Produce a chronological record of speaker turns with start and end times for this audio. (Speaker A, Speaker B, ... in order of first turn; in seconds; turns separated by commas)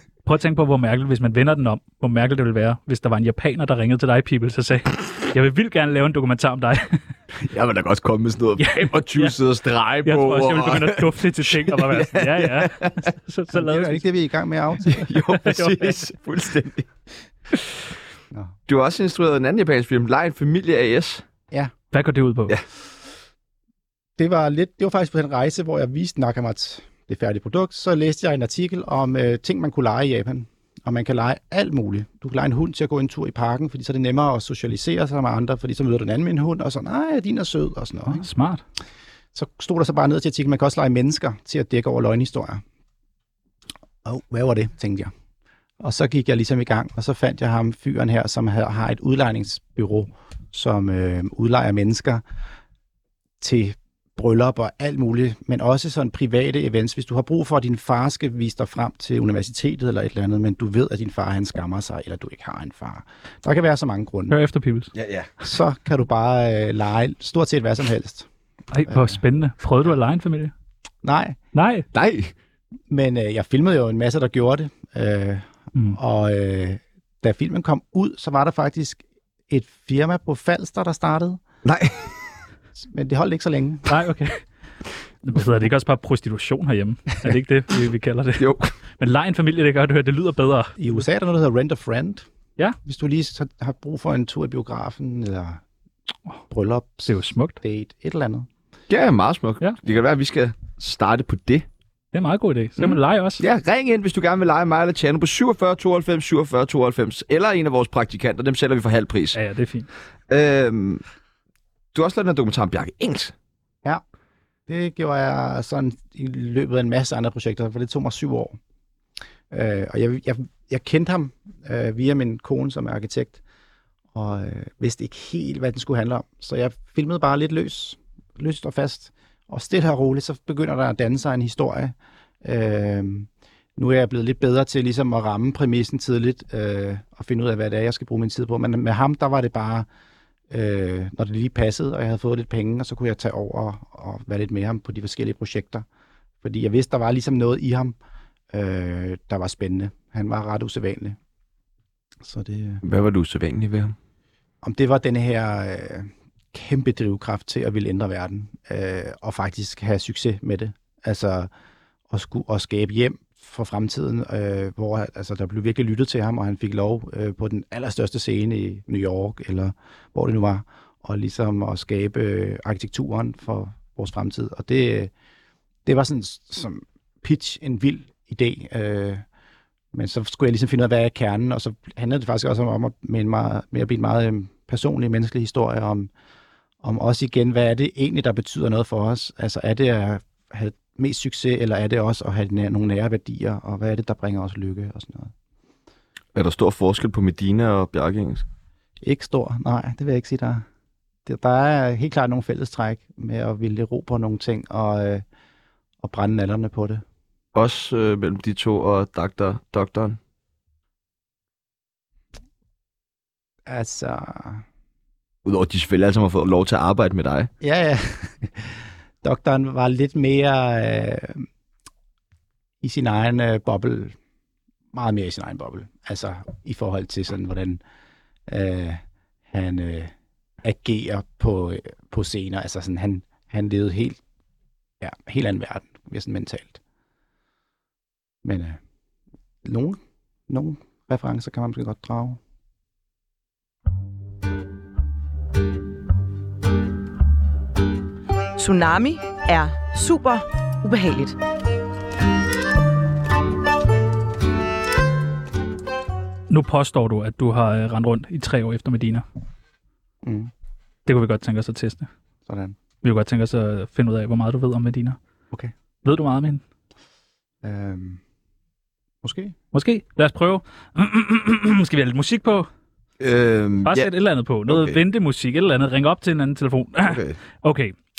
Speaker A: 0.2-7.0, Speaker B: 7.4-13.1, Speaker A: 8.6-9.3, Speaker A: 10.1-14.0, Speaker C: 13.5-15.1, Speaker B: 14.9-16.9, Speaker A: 15.3-16.1, Speaker B: 17.5-17.8, Speaker B: 18.7-21.2, Speaker A: 21.9-22.6, Speaker C: 24.2-38.3, Speaker A: 38.1-38.6, Speaker C: 39.3-42.6, Speaker C: 44.0-45.1, Speaker C: 45.8-52.2, Speaker C: 53.4-64.4, Speaker A: 64.3-64.9, Speaker B: 65.0-65.3, Speaker C: 65.4-68.3, Speaker A: 68.7-70.5, Speaker C: 68.9-69.2, Speaker C: 71.0-71.4, Speaker A: 71.5-71.9, Speaker B: 71.9-72.3, Speaker C: 72.9-81.4, Speaker B: 81.7-82.2, Speaker C: 82.8-84.0, Speaker A: 83.9-84.4, Speaker A: 85.2-88.5, Speaker B: 88.4-88.7, Speaker A: 89.0-90.9, Speaker C: 90.8-92.3, Speaker C: 92.8-95.6, Speaker C: 96.5-98.5, Speaker A: 97.1-97.6, Speaker B: 98.9-101.7, Speaker A: 102.1-103.4, Speaker B: 102.8-109.4, Speaker A: 109.3-109.9, Speaker B: 110.3-111.0, Speaker B: 111.9-113.3, Speaker C: 114.7-118.6, Speaker C: 119.5-123.4, Speaker C: 124.1-139.9, Speaker C: 140.5-145.8, Speaker C: 146.4-148.0, Speaker C: 148.5-151.2, Speaker C: 152.2-152.8, Speaker B: 152.8-153.9, Speaker C: 154.6-161.5, Speaker C: 162.1-175.1, Speaker C: 175.8-179.2, Speaker C: 179.9-186.1, Speaker C: 186.8-195.3, Speaker B: 196.3-198.4, Speaker C: 199.0-200.7, Speaker C: 201.3-205.2, Speaker C: 206.0-207.0, Speaker B: 207.5-210.2, Speaker C: 213.7-214.6, Speaker B: 215.4-217.5, Speaker C: 217.6-221.5, Speaker C: 222.8-224.2, Speaker C: 224.9-227.8, Speaker C: 228.5-234.2, Speaker C: 235.0-236.8, Speaker C: 238.4-238.8, Speaker C: 239.6-242.4, Speaker D: 248.6-251.4, Speaker A: 256.5-259.2, Speaker C: 260.2-260.5, Speaker A: 261.1-262.1, Speaker C: 262.5-262.8, Speaker A: 263.0-265.2, Speaker A: 266.1-266.6, Speaker C: 267.6-268.2, Speaker C: 269.2-269.6, Speaker A: 269.7-272.7, Speaker B: 273.2-274.1, Speaker A: 273.9-277.9, Speaker B: 274.7-275.0, Speaker B: 277.0-277.4